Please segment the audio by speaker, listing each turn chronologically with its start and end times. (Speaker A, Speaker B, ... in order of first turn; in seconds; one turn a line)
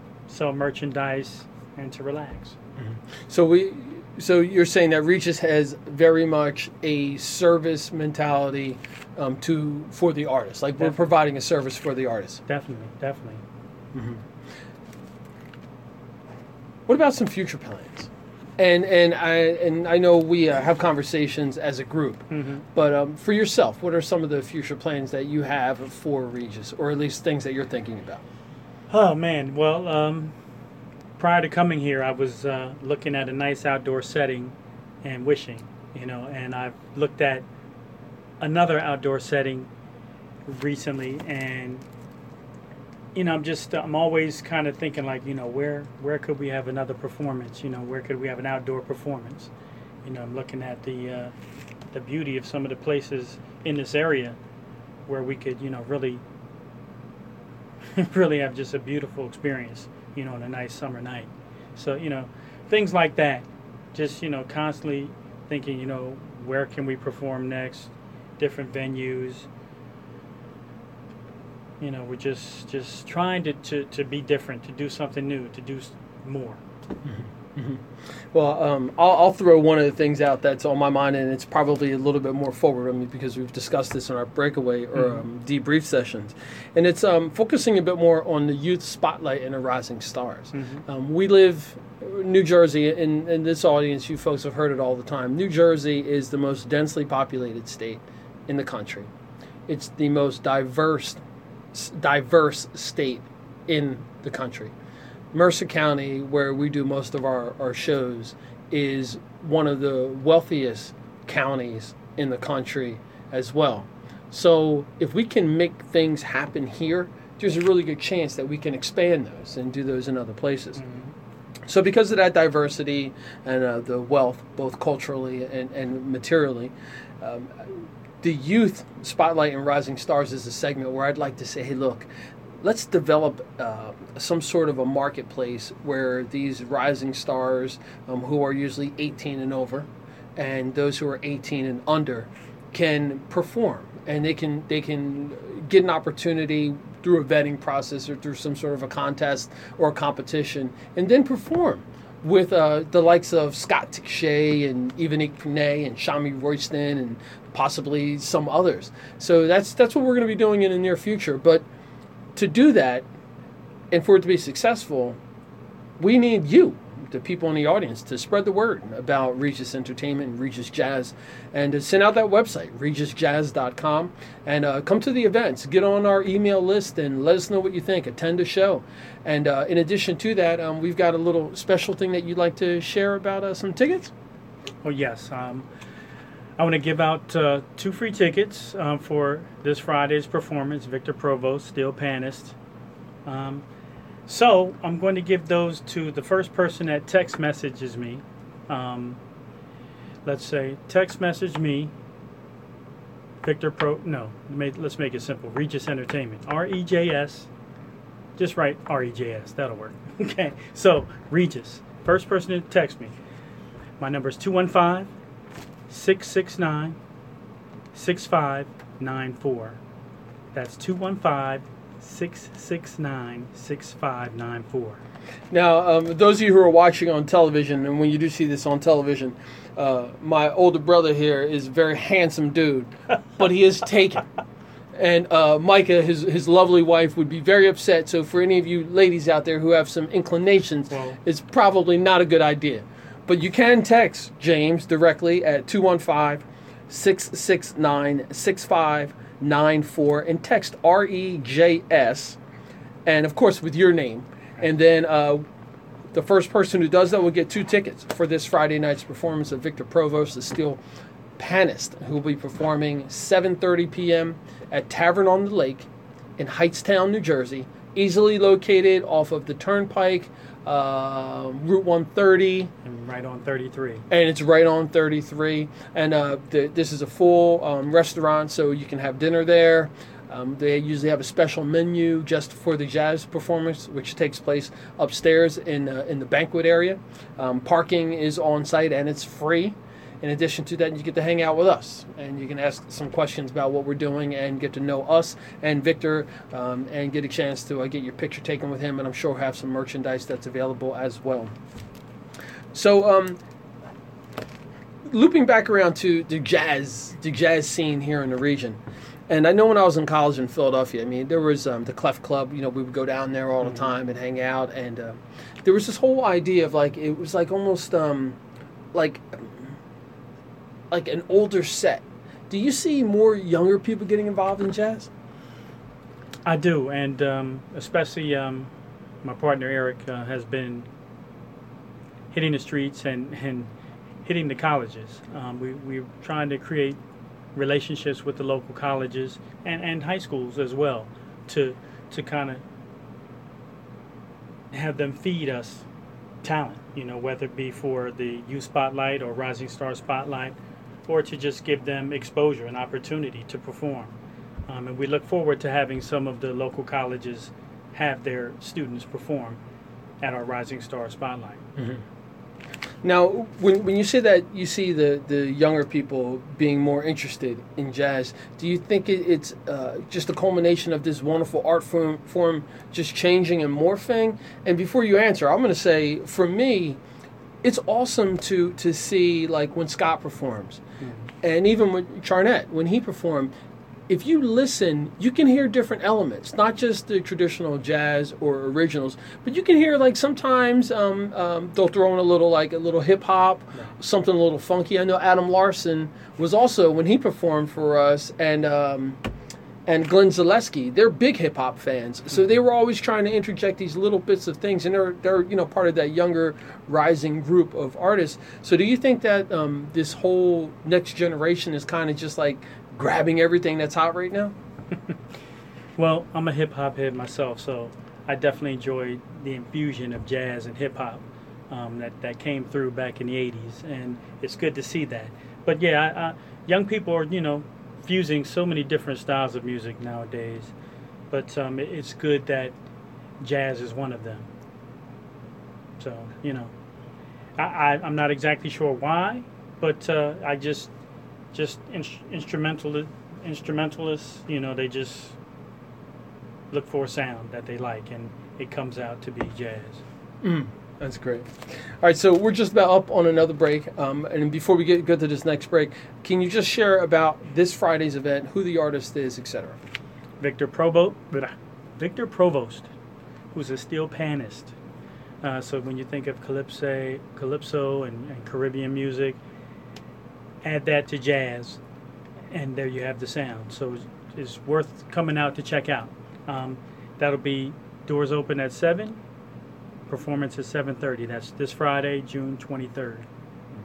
Speaker A: 0.3-2.5
Speaker B: 2.8-12.4
Speaker A: 12.5-13.4
Speaker B: 13.9-14.2
Speaker B: 16.9-28.2
Speaker A: 22.3-22.6
Speaker A: 28.9-30.3
Speaker A: 31.2-37.4
Speaker A: 38.4-39.7
Speaker A: 40.5-41.8
Speaker A: 43.1-49.5
Speaker A: 50.0-51.3
Speaker A: 51.9-54.4
Speaker A: 55.1-56.2
Speaker A: 57.9-69.5
Speaker A: 71.8-76.6
Speaker B: 77.0-99.1
Speaker A: 85.0-85.2
Speaker A: 90.5-90.8
Speaker B: 99.7-101.2
Speaker B: 101.7-104.7
Speaker B: 105.3-120.8
Speaker A: 120.8-121.1
Speaker B: 121.7-127.7
Speaker B: 128.2-132.1
Speaker B: 132.6-161.6
Speaker B: 162.3-163.1
Speaker B: 163.9-165.2
Speaker B: 166.0-184.1
Speaker A: 184.8-185.7
Speaker A: 186.6-192.6
Speaker A: 193.2-193.6
Speaker A: 194.3-199.2
Speaker A: 200.2-201.9
Speaker A: 203.4-207.5
Speaker A: 208.4-213.1
Speaker A: 214.0-215.1
Speaker A: 215.9-217.0
Speaker A: 217.9-219.8
Speaker A: 220.5-225.0
Speaker B: 225.5-234.3
Speaker B: 234.9-252.4
Speaker A: 240.9-241.2
Speaker B: 253.1-255.4
Speaker B: 256.1-260.8
Speaker B: 261.4-272.7
Speaker A: 272.8-274.0
Speaker B: 274.1-301.5
Speaker B: 302.7-303.4
Speaker B: 305.1-318.4
Speaker B: 318.9-319.8
Speaker B: 320.9-325.1
Speaker A: 326.4-328.7
Speaker A: 329.2-330.9
Speaker A: 332.3-333.7
Speaker A: 334.2-337.0
Speaker A: 337.5-342.6
Speaker A: 344.7-345.9
Speaker A: 346.4-350.6
Speaker A: 351.1-354.1
Speaker A: 354.7-359.6
Speaker A: 360.2-361.6
Speaker B: 361.8-362.0
Speaker B: 363.0-377.0
Speaker B: 377.6-380.8
Speaker B: 381.4-383.5
Speaker B: 384.1-399.2
Speaker B: 399.9-414.5
Speaker A: 416.0-430.7
Speaker A: 431.3-432.7
Speaker A: 433.4-434.5
Speaker A: 436.0-436.7
Speaker A: 437.6-440.9
Speaker A: 441.5-445.4
Speaker A: 446.7-450.0
Speaker B: 450.4-459.8
Speaker A: 460.4-462.9
Speaker A: 463.5-464.7
Speaker A: 465.4-469.4
Speaker A: 470.6-471.8
Speaker A: 472.5-479.2
Speaker A: 480.1-483.2